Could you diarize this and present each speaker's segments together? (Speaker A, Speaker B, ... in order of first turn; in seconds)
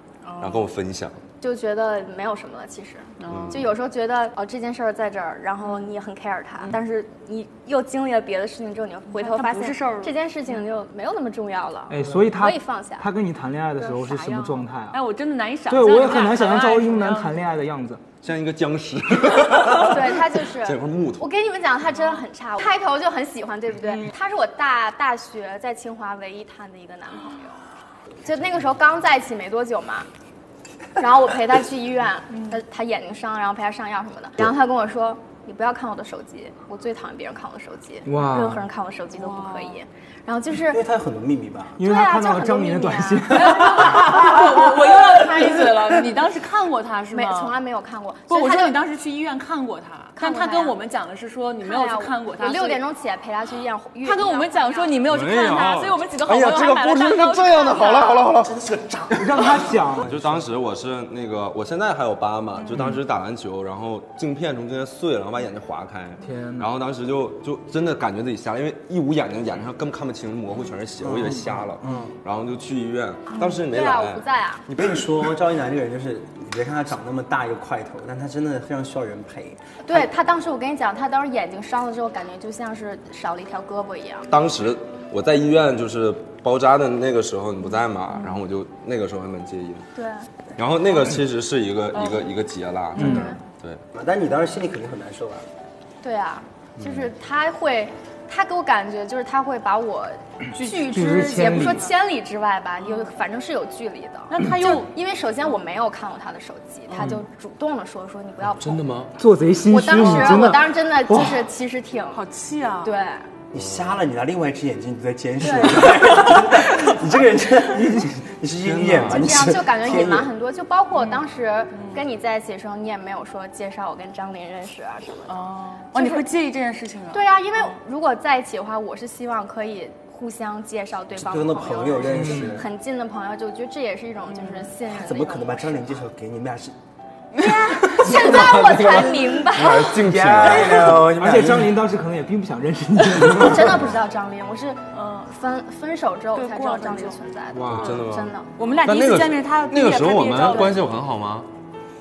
Speaker A: 0.2-0.7, 3.2-3.6, 5.6-5.9, 9.1-10.1, 13.8-17.3, 32.3-32.6, 39.1-39.8, 43.4-47.6, 48.3-52.8, 54.0-58.3, 62.6-62.9, 91.9-92.2, 93.0-93.3, 100.5-101.8, 102.8-103.1, 104.3-104.9, 112.1-112.9, 121.0-121.2, 125.3-127.7, 134.3-134.7, 137.4-137.8, 144.9-145.3, 146.3-147.2, 147.7-148.0, 148.6-150.8
Speaker B: 0.4-1.2, 3.2-3.7, 18.2-21.3, 55.1-58.5, 60.0-75.1, 84.3-89.8, 90.5-93.8, 108.6-109.1, 113.5-114.0, 118.6-119.3, 137.9-141.4, 147.6-148.3, 148.8-151.5
Speaker C: 1.4-13.1, 19.7-27.6, 28.2-30.1, 31.0-40.8, 41.8-43.6, 47.1-48.8, 50.1-50.8, 51.6-55.0, 73.3-74.7, 79.8-84.3, 89.9-90.3, 93.0-93.3, 96.0-108.8, 109.7-112.2, 112.8-113.3, 115.4-116.0, 119.1-125.3, 125.9-126.2, 127.1-135.9, 137.3-140.0, 143.3-148.5
Speaker D: 11.9-15.0, 15.7-18.0, 38.0-38.6, 41.8-43.9, 59.1-60.1, 66.2-66.7, 93.0-93.3, 100.8-101.9, 109.2-111.4, 117.8-118.1, 132.1-132.6, 140.4-143.8, 147.6-147.9
Speaker E: 40.6-41.8, 58.4-60.5, 71.0-72.1, 74.7-80.1, 93.9-95.5, 113.5-120.3, 131.1-132.7, 134.9-136.7, 138.4-138.9, 139.9-141.8